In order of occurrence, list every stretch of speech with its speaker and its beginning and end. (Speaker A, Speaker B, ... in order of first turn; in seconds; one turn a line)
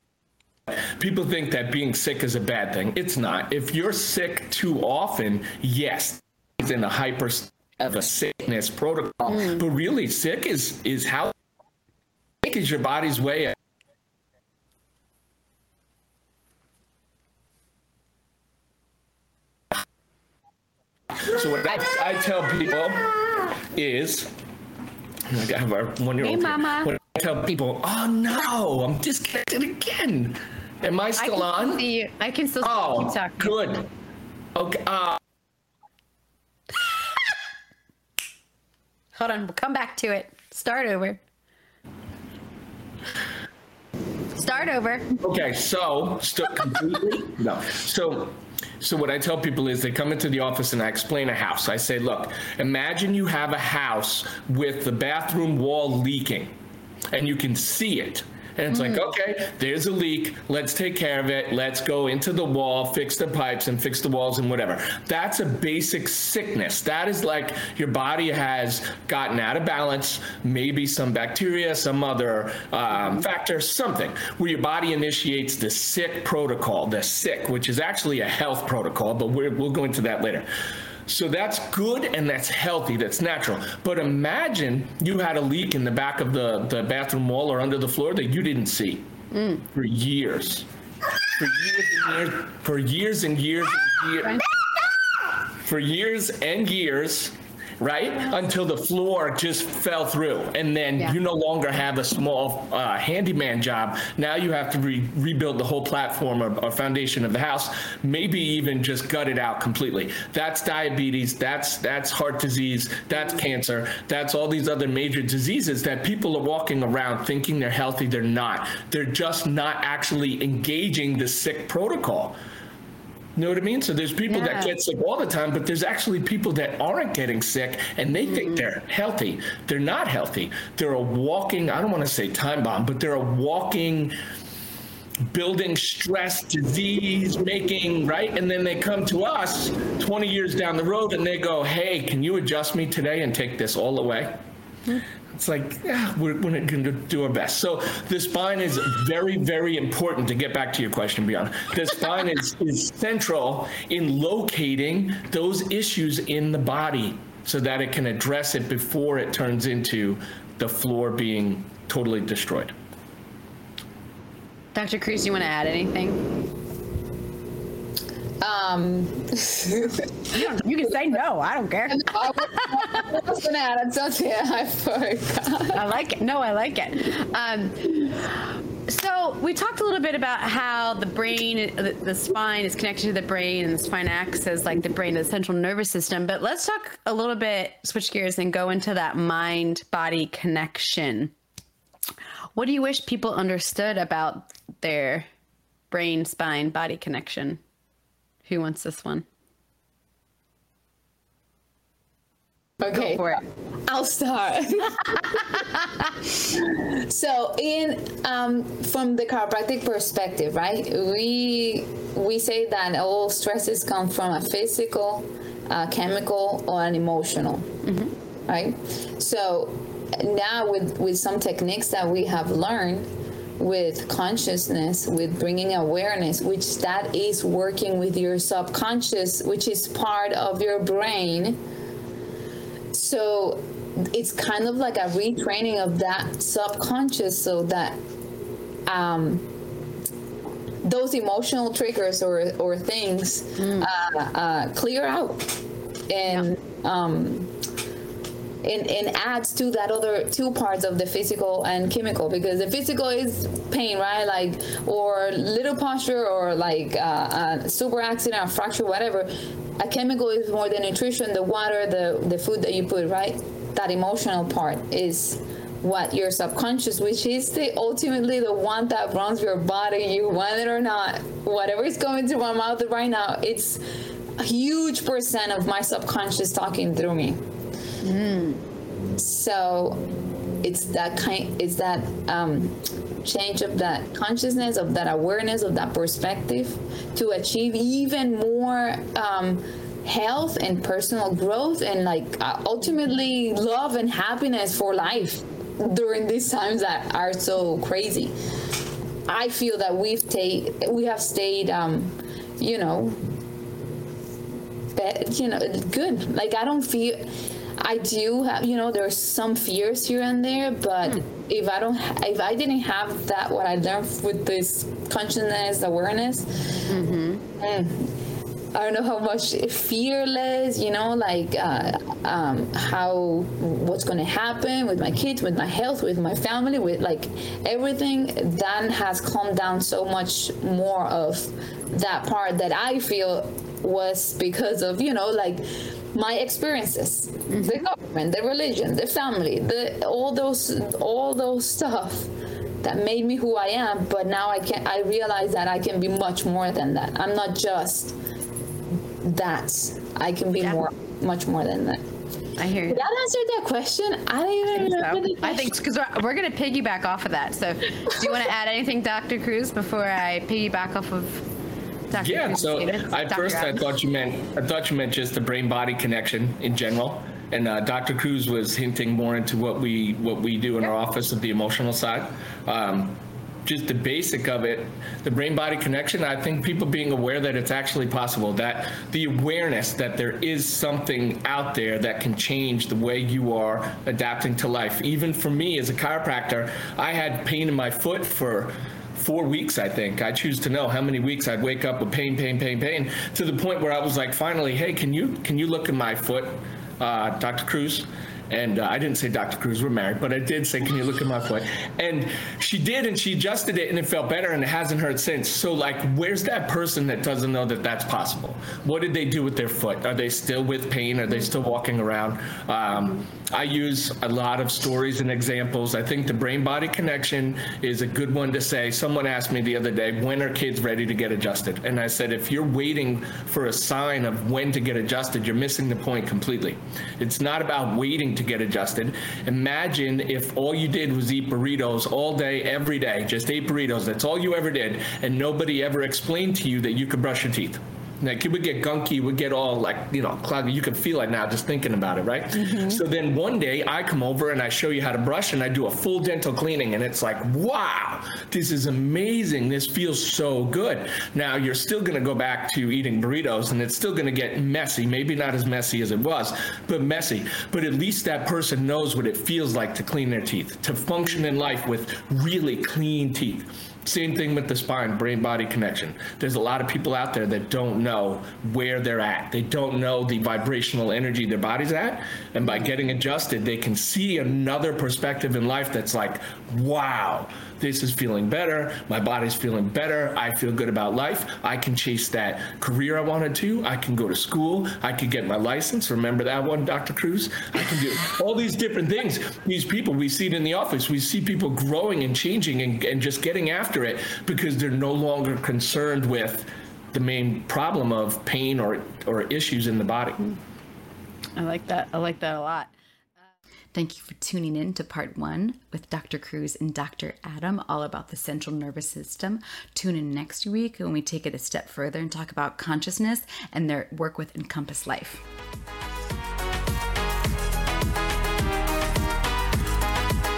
Speaker A: 0.7-11.3
Speaker A: 12.4-13.6
Speaker A: 21.1-24.3
Speaker A: 25.3-31.8
Speaker B: 26.2-26.9
Speaker B: 31.2-33.6
Speaker A: 32.6-33.9
Speaker A: 34.5-35.2
Speaker B: 39.1-41.2
Speaker B: 44.3-45.1
Speaker A: 45.2-56.5
Speaker A: 57.1-80.5
Speaker B: 58.7-59.0
Speaker A: 81.0-89.1
Speaker B: 89.3-89.6
Speaker A: 89.7-90.7
Speaker A: 91.3-94.4
Speaker A: 95.6-122.3
Speaker A: 123.3-134.1
Speaker B: 124.3-124.7
Speaker B: 128.3-128.6
Speaker A: 135.3-144.4
Speaker A: 145.3-162.7
Speaker B: 164.7-166.3
Speaker C: 168.4-170.3
Speaker B: 170.3-173.0
Speaker C: 171.9-175.8
Speaker B: 175.7-191.3
Speaker B: 192.5-195.3
Speaker B: 195.9-197.6
Speaker B: 198.4-199.2
Speaker C: 202.8-205.5
Speaker B: 202.8-203.4
Speaker C: 206.5-217.7
Speaker B: 217.8-218.1
Speaker C: 218.5-231.6
Speaker C: 232.9-238.0
Speaker C: 238.8-239.5
Speaker C: 240.8-247.5
Speaker B: 243.6-243.9
Speaker C: 248.6-273.8
Speaker C: 274.4-277.4
Speaker B: 278.0-278.6
Speaker C: 279.2-298.3
Speaker C: 299.3-303.2
Speaker C: 304.9-316.9
Speaker B: 316.9-317.4
Speaker C: 317.6-318.1
Speaker C: 318.7-342.3
Speaker B: 337.5-337.8
Speaker C: 342.8-348.2
Speaker C: 349.2-352.0
Speaker B: 352.6-353.0
Speaker C: 352.9-355.7
Speaker B: 354.7-361.4
Speaker B: 362.1-363.8
Speaker A: 362.2-500.4
Speaker B: 442.5-443.0
Speaker B: 501.6-502.9
Speaker D: 503.9-515.4